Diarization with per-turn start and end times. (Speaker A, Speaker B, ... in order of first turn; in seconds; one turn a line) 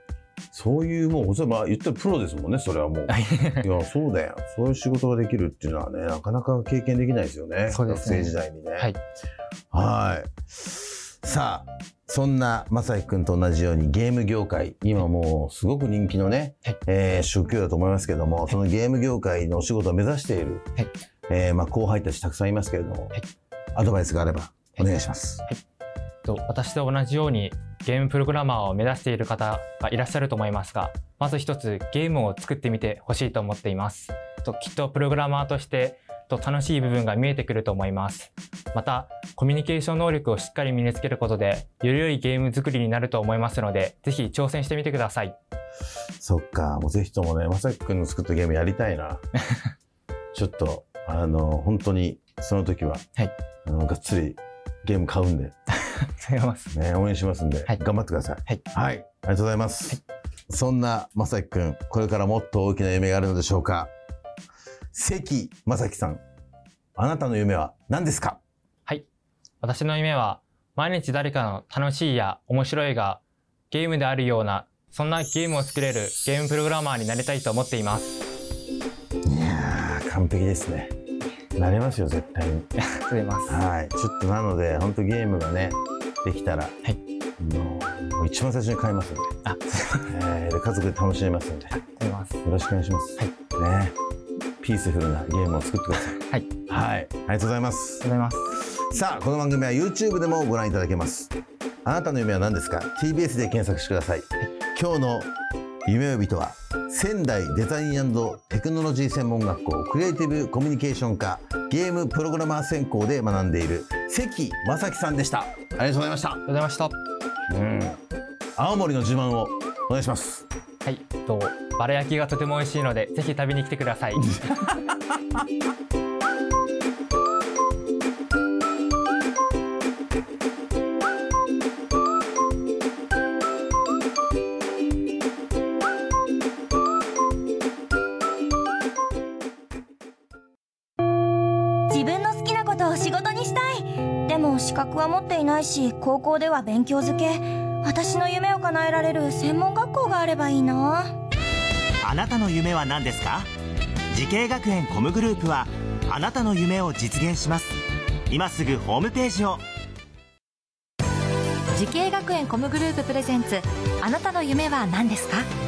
Speaker A: 0.5-8.9
Speaker B: 3.1-3.7
Speaker B: 7.7-9.0
Speaker A: 9.7-20.7
Speaker A: 21.3-23.1
Speaker A: 23.8-25.4
Speaker B: 26.2-45.4
Speaker A: 46.2-49.2
Speaker A: 50.3-53.0
Speaker A: 53.6-55.5
Speaker B: 55.7-56.7
Speaker A: 56.7-63.9
Speaker A: 64.9-66.2
Speaker A: 67.0-68.4
Speaker B: 69.6-78.2
Speaker A: 79.2-80.9
Speaker A: 81.6-82.7
Speaker B: 82.8-83.6
Speaker A: 83.5-86.8
Speaker A: 87.4-89.3
Speaker B: 89.4-90.1
Speaker A: 90.1-91.8
Speaker B: 91.7-92.4
Speaker A: 92.4-93.9
Speaker A: 94.6-98.1
Speaker B: 96.1-96.5
Speaker B: 98.0-98.6
Speaker A: 98.7-101.3
Speaker A: 101.8-105.3
Speaker A: 105.8-116.4
Speaker B: 116.5-116.9
Speaker A: 117.5-118.0
Speaker A: 118.6-120.5
Speaker B: 120.8-124.8
Speaker C: 141.9-151.1
Speaker D: 152.0-153.5
Speaker D: 154.1-157.7
Speaker D: 158.3-159.6
Speaker E: 161.7-165.5